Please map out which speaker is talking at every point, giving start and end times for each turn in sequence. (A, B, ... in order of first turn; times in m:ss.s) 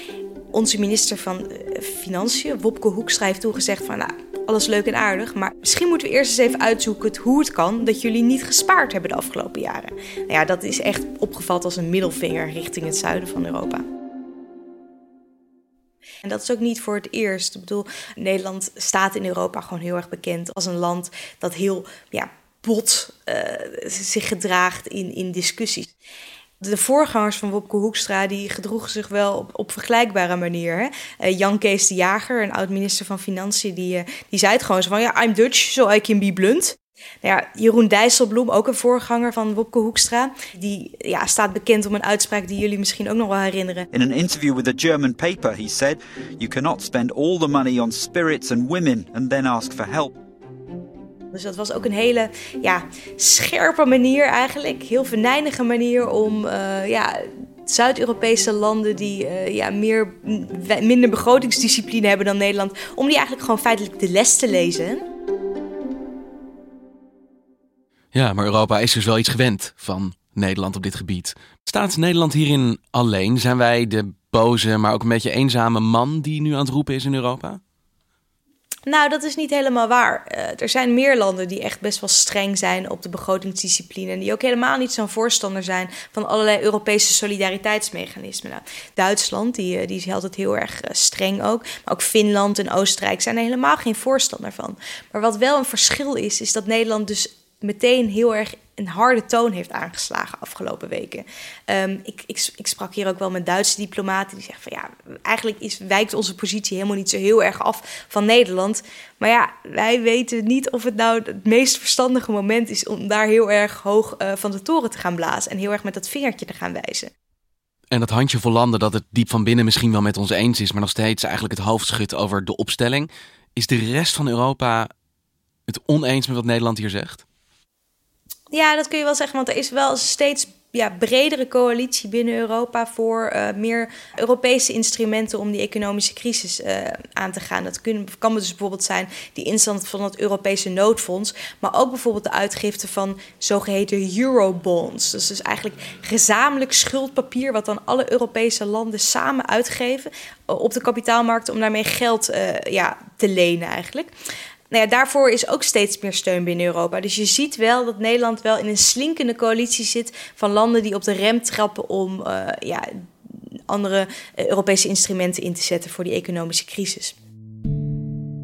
0:00.5-0:13.8 A
0:16.2-0:25.9 A
0:26.6-0:43.9 A
0:43.9-0:50.2 B
0:51.3-1:05.0 A
1:08.1-1:17.6 C
1:18.9-1:57.1 A
1:57.9-2:04.9 C
2:05.7-2:07.2 C
2:08.5-2:34.1 A
2:34.7-2:43.0 A
2:43.7-2:47.1 A